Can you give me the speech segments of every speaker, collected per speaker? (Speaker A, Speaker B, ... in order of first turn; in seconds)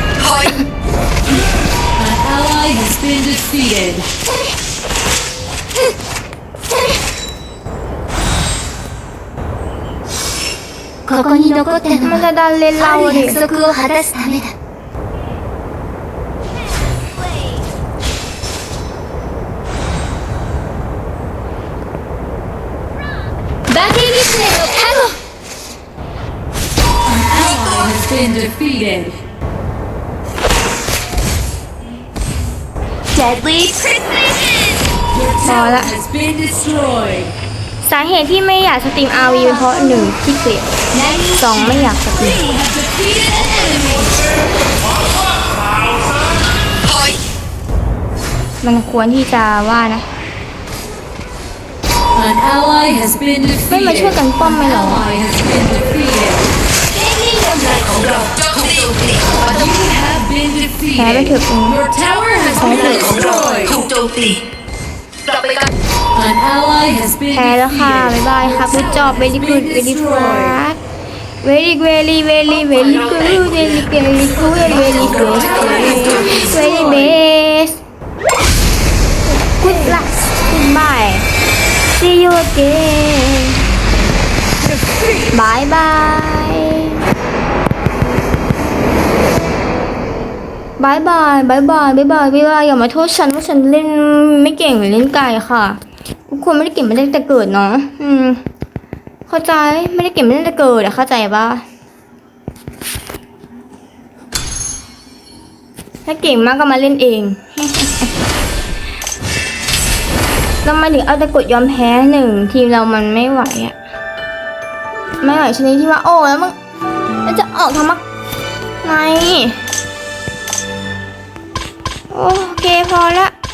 Speaker A: 1.9-4.1, 27.0-29.2, 35.1-37.3, 42.3-44.1, 52.1-56.5, 59.4-63.8, 66.1-70.5, 75.2-76.5
Speaker B: 11.1-12.2, 12.8-14.5, 23.7-25.2, 33.1-34.1, 40.9-41.5, 56.9-58.0
Speaker C: 12.0-13.4, 35.4-36.0, 37.8-40.7, 41.4-42.5, 48.6-50.0, 53.7-55.1, 60.9-61.8, 62.8-63.1, 67.3-70.8, 71.4-77.8, 79.3-81.3, 81.9-83.6, 85.3-87.0, 90.8-98.4, 99.3-101.6, 106.0-108.1, 110.6-113.8, 115.2-116.5, 117.2-118.0, 118.8-119.6, 122.1-123.3
Speaker D: 57.6-59.5, 62.6-64.4, 65.2-65.7